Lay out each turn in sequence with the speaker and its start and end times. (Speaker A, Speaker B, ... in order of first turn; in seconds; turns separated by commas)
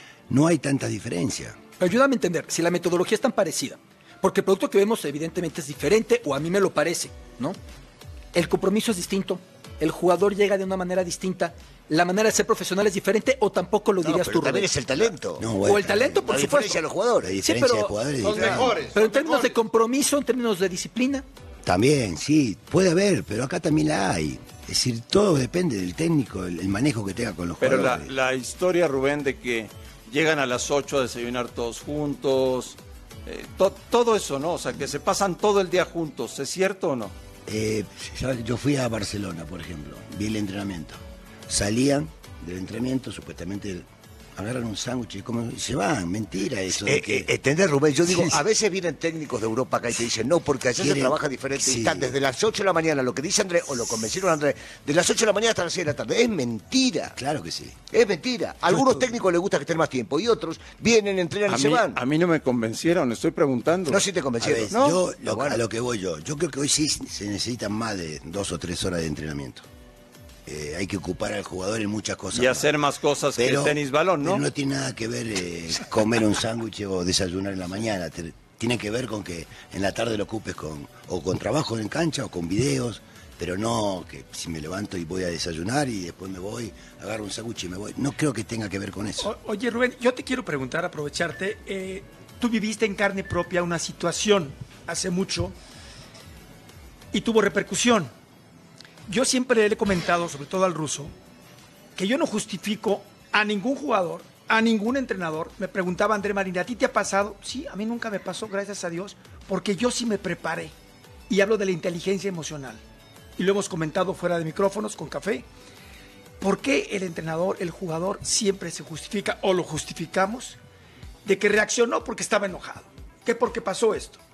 Speaker A: 0.3-1.6, Speaker B: 1.8-7.6, Speaker B: 8.3-14.8, Speaker C: 14.0-15.5, Speaker A: 15.4-16.4, Speaker B: 15.6-16.8, Speaker C: 16.3-17.3, Speaker A: 17.2-18.8, Speaker B: 17.4-17.9, Speaker D: 18.2-19.5, Speaker C: 18.3-18.7, Speaker B: 18.9-21.2, Speaker A: 21.6-28.1, Speaker D: 27.6-37.1, Speaker A: 37.5-47.3, Speaker C: 46.7-57.1, Speaker A: 48.1-48.4, Speaker A: 50.8-52.1, Speaker A: 57.1-57.9, Speaker C: 57.9-62.0, Speaker A: 58.7-59.0, Speaker D: 61.5-64.0, Speaker C: 63.9-65.6, Speaker A: 64.4-69.6, Speaker D: 64.7-65.0, Speaker A: 70.5-72.7, Speaker D: 72.3-74.4, Speaker A: 73.3-89.3, Speaker E: 89.2-95.5, Speaker E: 97.1-98.1, Speaker E: 99.1-101.1, Speaker E: 102.0-110.7, Speaker E: 111.3-112.8, Speaker E: 113.4-115.5, Speaker E: 116.4-120.6, Speaker E: 121.2-124.2